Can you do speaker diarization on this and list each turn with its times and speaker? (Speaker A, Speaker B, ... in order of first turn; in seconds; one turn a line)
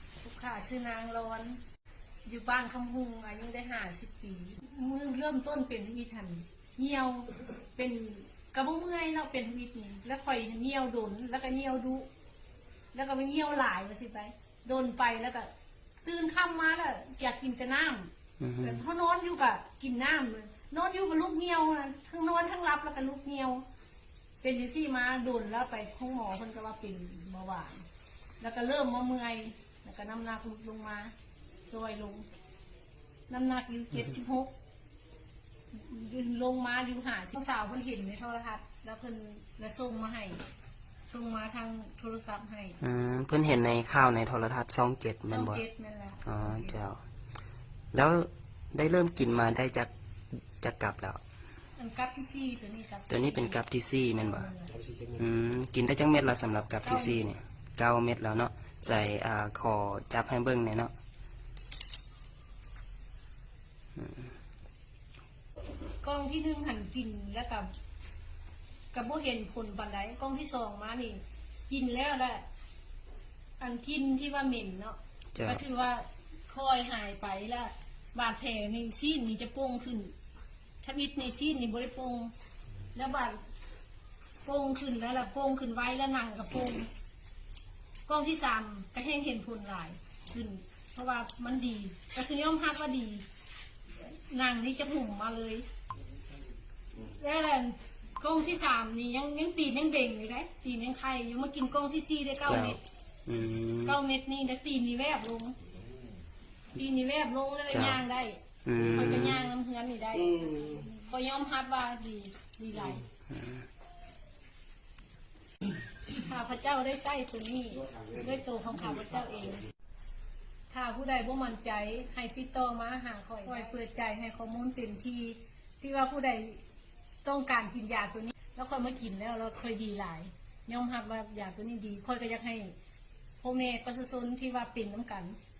Speaker A: 0.2-1.6
Speaker A: 2.2-12.1
Speaker A: 12.9-15.5
Speaker A: 16.0-18.1
Speaker B: 18.4-18.8
Speaker A: 18.6-23.6
Speaker A: 24.4-27.8
Speaker A: 28.4-31.1
Speaker A: 31.7-32.2
Speaker A: 33.3-34.5
Speaker A: 35.7-40.4
Speaker A: 41.1-42.8
Speaker B: 42.8-45.6
Speaker A: 45.3-46.8
Speaker B: 46.2-47.0
Speaker B: 47.9-49.9
Speaker B: 50.6-51.2
Speaker A: 51.8-54.7
Speaker B: 53.1-54.5
Speaker B: 55.1-60.9
Speaker A: 56.8-57.2
Speaker B: 64.0-64.2
Speaker A: 66.0-67.7
Speaker A: 68.9-72.4
Speaker A: 73.6-80.1
Speaker B: 75.3-75.6
Speaker A: 80.8-82.3
Speaker A: 82.9-83.4
Speaker A: 84.4-86.9
Speaker A: 88.1-93.2
Speaker A: 94.0-95.7
Speaker A: 97.1-102.8
Speaker B: 102.5-104.0
Speaker A: 103.8-105.5
Speaker A: 106.8-113.0
Speaker B: 107.7-108.0
Speaker B: 108.6-109.4
Speaker B: 113.3-113.6
Speaker A: 116.1-119.6
Speaker A: 120.7-126.6
Speaker A: 127.2-132.7
Speaker A: 133.4-135.4